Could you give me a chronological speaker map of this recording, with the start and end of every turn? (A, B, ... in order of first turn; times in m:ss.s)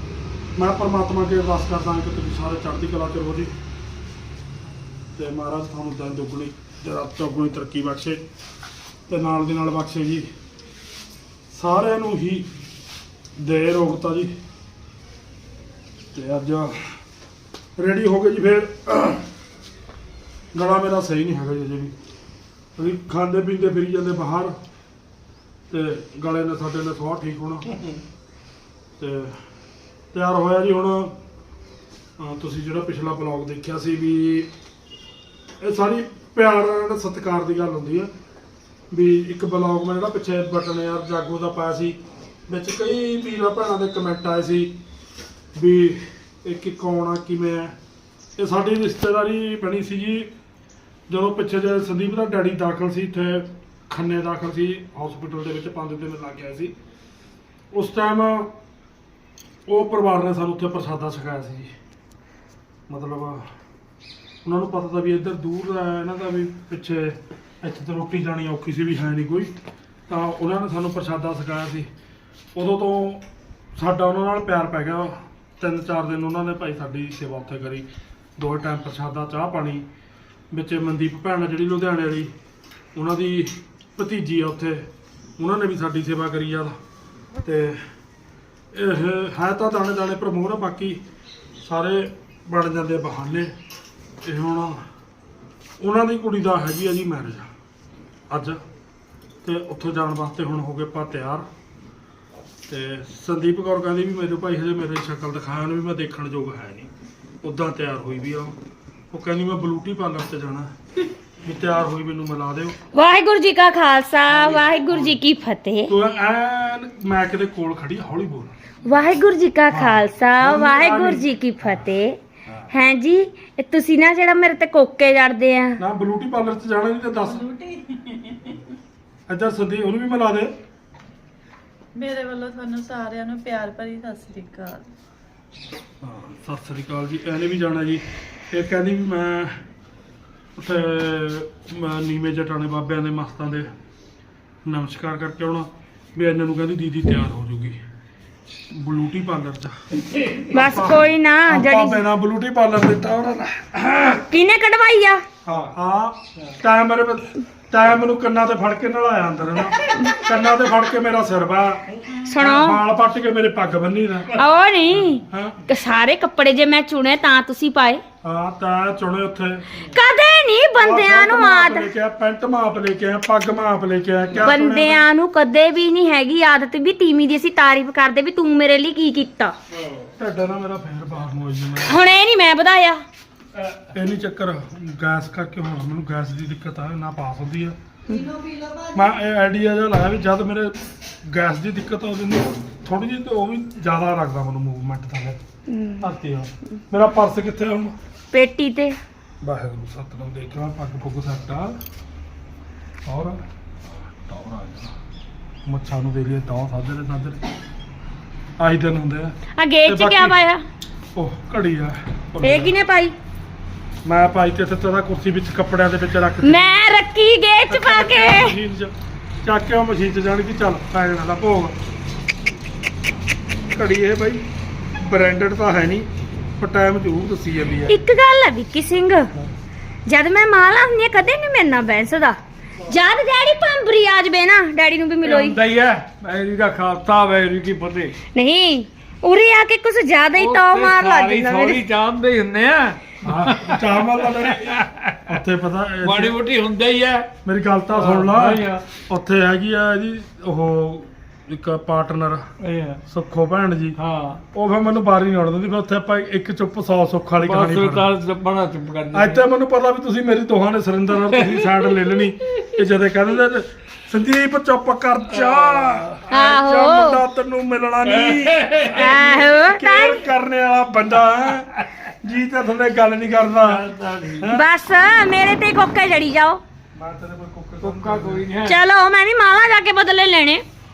0:00.6-0:03.5 A
0:05.2-0:08.2 A
0:09.1-0:10.3 A
0:11.5-0:12.5 A
0:13.4-0:14.3 A
0:16.1-0:16.8 A
0:17.8-0:19.2 A
0:20.5-0:21.9 A
0:22.8-0:24.6 A
0:25.7-0:27.8 A
0:29.0-0:29.4 A
0:30.1-0:31.2 A
0:32.2-0:34.5 A
0:35.6-0:38.1 A
0:38.9-0:42.0 A
0:42.5-0:44.8 A
0:45.6-0:47.8 A
0:48.4-0:50.3 A
0:51.1-0:56.7 A
0:57.7-0:58.5 A
0:59.7-1:01.7 A
1:02.9-1:03.5 A
1:04.4-1:09.6 A
1:10.1-1:11.9 A
1:12.6-1:13.2 A
1:13.8-1:19.9 A
1:20.5-1:22.3 A
1:23.0-1:26.8 A
1:27.4-1:27.8 A
1:28.7-1:31.0 A
1:31.6-1:33.5 A
1:34.2-1:34.8 A
1:35.8-1:37.5 A
1:38.3-1:38.6 A
1:39.4-1:41.5 A
1:42.7-1:46.9 A
1:47.4-1:48.6 A
1:49.1-1:50.7 A
1:51.4-1:52.8 A
1:52.9-1:55.9 B
1:54.3-1:55.1 A
1:55.9-1:58.5 A
1:58.9-2:02.2 B
1:59.7-2:01.2 A
2:02.7-2:05.8 B
2:05.8-2:07.4 A
2:07.2-2:08.6 C
2:09.3-2:10.5 A
2:12.0-2:14.8 C
2:16.0-2:19.6 A
2:20.6-2:23.7 A
2:24.7-2:27.8 A
2:28.7-2:29.8 A
2:30.4-2:34.2 A
2:30.5-2:32.0 B
2:34.2-2:35.2 B
2:35.5-2:44.4 A
2:42.2-2:42.8 B
2:44.4-2:48.0 B
2:45.3-2:45.6 A
2:48.2-2:49.9 A
2:49.8-2:51.9 B
2:50.8-2:55.0 A
2:54.4-2:59.6 B
3:00.2-3:02.0 A
3:01.9-3:03.0 B
3:03.9-3:07.8 A
3:08.1-3:09.2 C
3:09.0-3:15.4 A
3:15.7-3:16.1 B
3:16.0-3:18.0 A
3:18.3-3:19.0 B
3:19.4-3:21.8 A
3:23.1-3:23.4 A
3:24.0-3:24.9 A
3:25.7-3:27.4 A
3:28.6-3:30.4 A
3:29.6-3:30.6 B
3:31.2-3:32.7 A
3:32.4-3:33.2 B
3:34.0-3:36.6 A
3:36.4-3:38.6 B
3:37.7-3:38.9 A
3:39.4-3:41.7 A
3:43.7-3:44.4 A
3:45.0-3:48.0 A
3:47.9-3:49.3 B
3:50.1-3:55.6 B
3:55.2-3:58.2 D
3:58.3-4:01.8 B
4:00.3-4:05.3 D
4:03.2-4:04.8 A
4:05.3-4:06.4 A
4:06.0-4:07.3 D
4:07.4-4:12.5 A
4:07.9-4:08.8 D
4:12.6-4:13.0 D
4:13.1-4:14.0 A
4:14.0-4:14.4 D
4:14.5-4:18.1 A
4:17.4-4:19.4 D
4:19.1-4:31.7 A
4:21.3-4:21.6 D
4:25.3-4:26.2 D
4:26.3-4:27.2 B
4:28.0-4:29.2 D
4:28.9-4:30.2 B
4:32.2-4:33.9 A
4:33.6-4:34.5 D
4:34.4-4:34.6 A
4:34.5-4:36.6 B
4:37.0-4:38.4 A
4:37.8-4:38.8 D
4:38.6-4:40.6 B